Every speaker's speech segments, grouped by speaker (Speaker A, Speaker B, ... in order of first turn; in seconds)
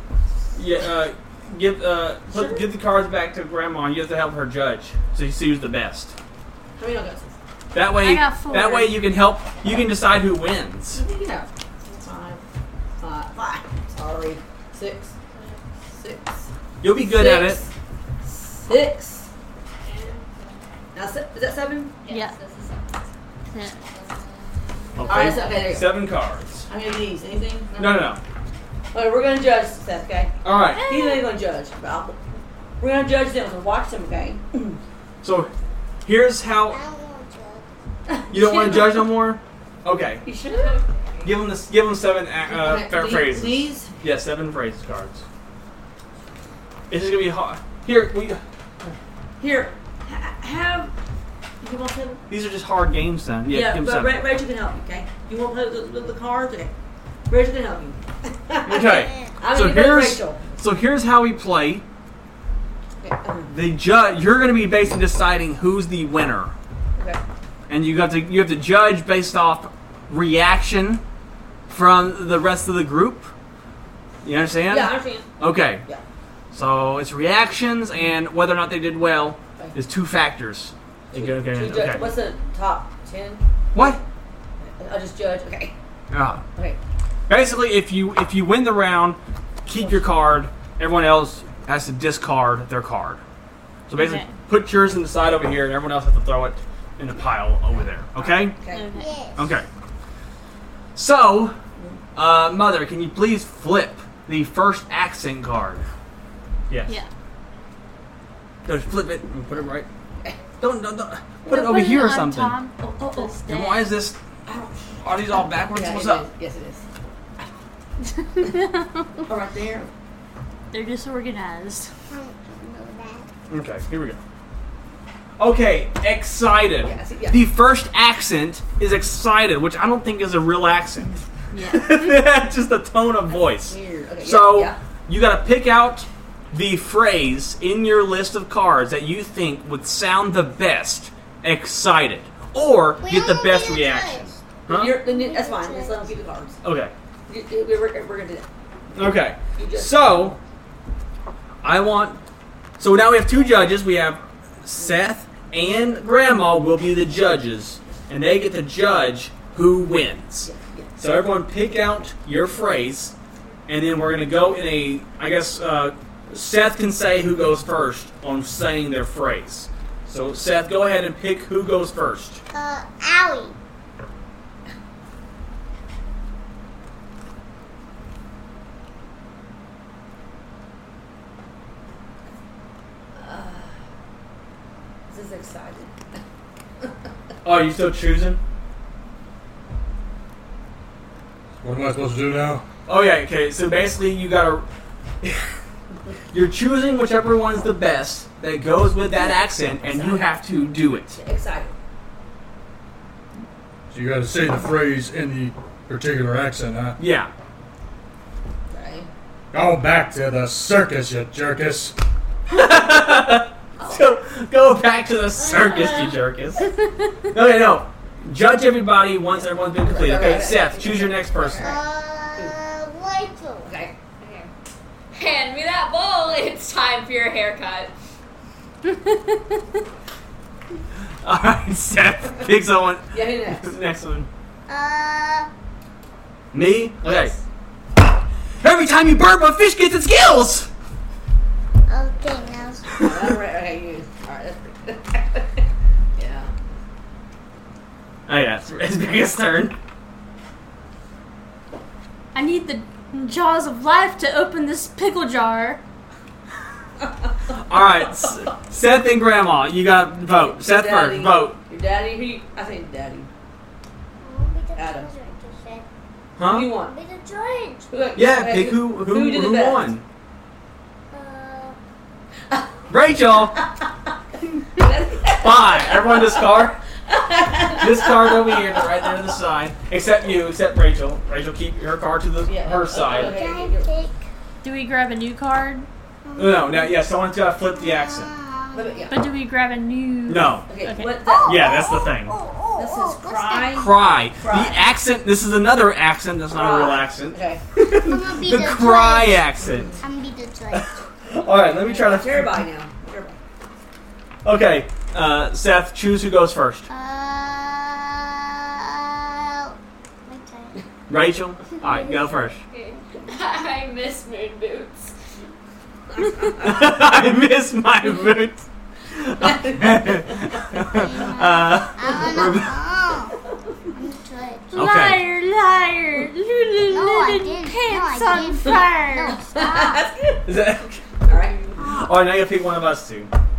Speaker A: 0.5-6.1, 7.7-11.0, 16.8-17.6, 25.0-26.7, 27.8-28.2, 30.4-30.8, 35.2-35.5, 36.0-36.8, 38.3-40.2, 41.2-45.2, 46.9-48.4, 52.3-54.2, 58.7-61.9, 63.5-66.5, 67.7-71.0, 71.7-73.3, 74.2-75.8, 76.5-82.1, 83.7-84.0, 86.1-86.4, 87.3-93.2, 93.9-98.6, 99.4-99.7, 101.0-101.6, 102.2-105.9, 106.7-106.9, 108.7-109.9, 110.6-112.6, 113.5-114.2, 115.0-116.2, 123.5-124.2, 125.4-145.0, 146.6-146.9, 148.9-150.4, 151.6-152.2, 152.8-163.1, 163.7-172.4, 187.4-188.4, 192.9-194.7, 195.2-195.5, 196.3-201.2, 207.0-207.3, 212.5-216.7, 217.3-221.8, 231.2-234.3, 236.5-237.3, 238.6-240.7, 248.3-249.8, 257.5-261.6, 266.4-266.7, 268.2-270.0, 272.9-273.6, 275.2-276.8, 277.7-283.4, 286.4-288.3, 290.3-290.7, 291.5-292.4, 293.7-299.9, 300.7-302.6, 304.4-306.9, 311.1-312.6, 316.4-322.8, 324.8-325.2, 330.5-331.3, 331.9-333.3
Speaker B: 2.3-2.7, 6.8-7.4, 10.9-11.5, 12.0-12.4, 13.0-15.2, 15.9-17.7, 18.2-19.3, 20.9-21.9, 25.0-26.1, 26.7-28.1, 28.9-32.2, 32.8-34.8, 38.1-39.1, 40.2-40.8, 42.5-44.0, 49.4-50.9, 51.6-52.2, 53.5-56.7, 57.3-60.5, 63.0-63.6, 74.7-75.3, 81.1-84.0, 84.6-85.8, 89.7-90.1, 98.2-99.0, 112.8-113.4, 114.5-116.8, 119.2-119.9, 126.8-127.5, 133.5-134.8, 144.7-146.6, 147.3-148.5, 149.6-150.4, 160.4-160.9, 183.1-183.7, 185.1-185.9, 199.8-200.3, 201.1-201.8, 208.7-209.1, 213.8-214.2, 215.8-216.0, 219.8-221.8, 223.6-224.0, 233.1-233.7, 237.0-237.3, 242.9-245.7, 246.2-246.5, 260.4-263.3, 264.8-265.1, 266.4-266.9, 267.9-270.0, 273.3-273.9, 274.8-279.0, 282.4-283.9, 288.7-289.2, 290.7-291.7, 292.8-294.9, 296.5-297.6, 299.7-300.0, 301.9-303.4, 329.5-330.4, 331.3-331.9
Speaker C: 8.0-9.0, 22.1-22.4, 23.5-23.8, 30.8-31.2, 94.0-94.3, 98.7-99.1, 111.5-113.9, 118.4-119.1, 120.7-121.9, 131.5-132.2, 228.9-229.4, 252.3-255.8, 284.6-285.9, 289.1-291.2, 324.7-329.4
Speaker D: 19.8-20.5, 22.0-23.1, 23.9-25.5, 40.4-41.3, 224.2-224.5, 225.1-227.9, 312.1-315.1
Speaker E: 36.7-37.7, 58.7-59.4, 99.0-99.5, 122.1-123.3, 143.0-144.3, 144.9-146.2, 172.5-173.5, 221.6-223.7, 234.7-235.5, 241.9-243.0, 264.2-265.9, 266.8-267.9, 271.1-271.8, 283.1-284.2, 286.2-287.1, 287.7-289.1, 291.2-293.7, 297.8-299.5, 300.0-300.9, 306.9-310.8, 311.8-312.1, 320.7-323.4, 323.9-324.8, 326.8-330.0, 331.8-332.1
Speaker F: 191.6-192.7, 203.9-207.0, 209.5-211.9